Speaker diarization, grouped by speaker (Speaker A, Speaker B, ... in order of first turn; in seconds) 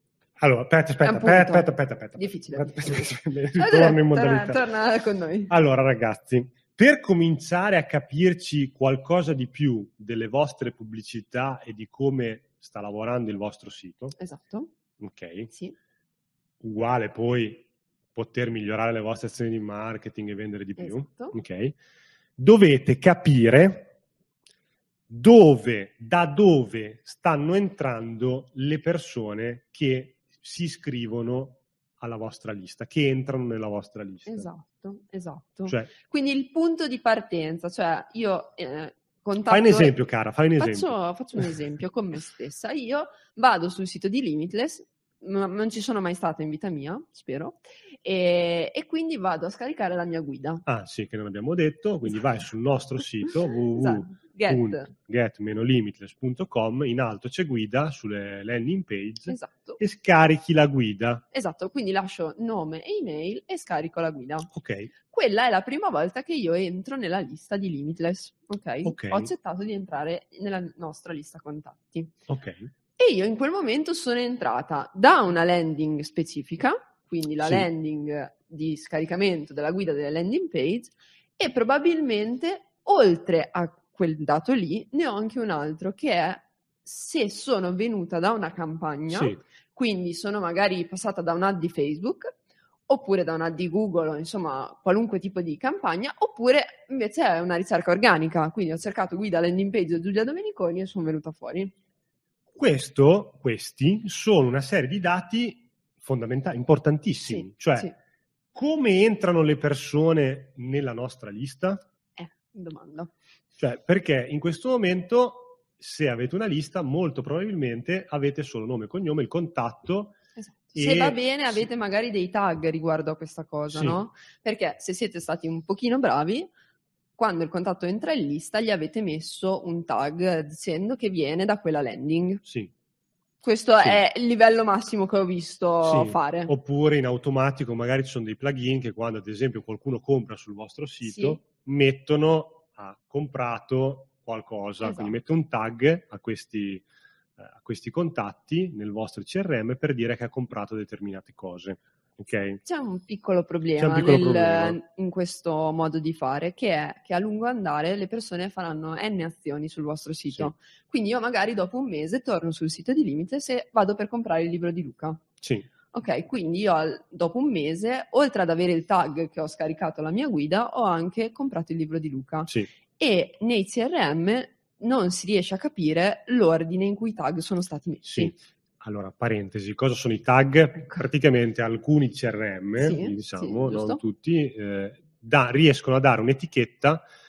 Speaker A: 0.4-4.6, 5.5-14.2, 15.0-15.5, 16.6-21.8, 22.4-23.9, 25.1-34.5, 39.5-41.4, 50.6-61.2, 64.5-64.9, 68.8-69.3, 72.3-72.7, 77.4-77.7, 89.1-89.4, 102.5-107.9, 108.5-111.8, 113.6-120.2, 120.7-121.7, 123.7-124.0, 132.4-132.7, 135.8-146.8, 147.4-152.6, 153.8-154.8, 178.0-187.1
Speaker B: 1.0-5.5, 14.2-14.7, 15.5-15.8, 20.8-21.4, 34.3-39.9, 40.6-50.6, 53.8-54.9, 59.3-59.8, 61.3-64.5, 65.1-72.2, 73.0-92.3, 92.9-101.7, 107.3-107.9, 112.2-113.1, 120.3-126.5, 127.2-132.4, 133.4-136.5, 141.0-141.4, 144.8-145.1, 152.6-165.2, 165.9-178.3, 182.8-184.0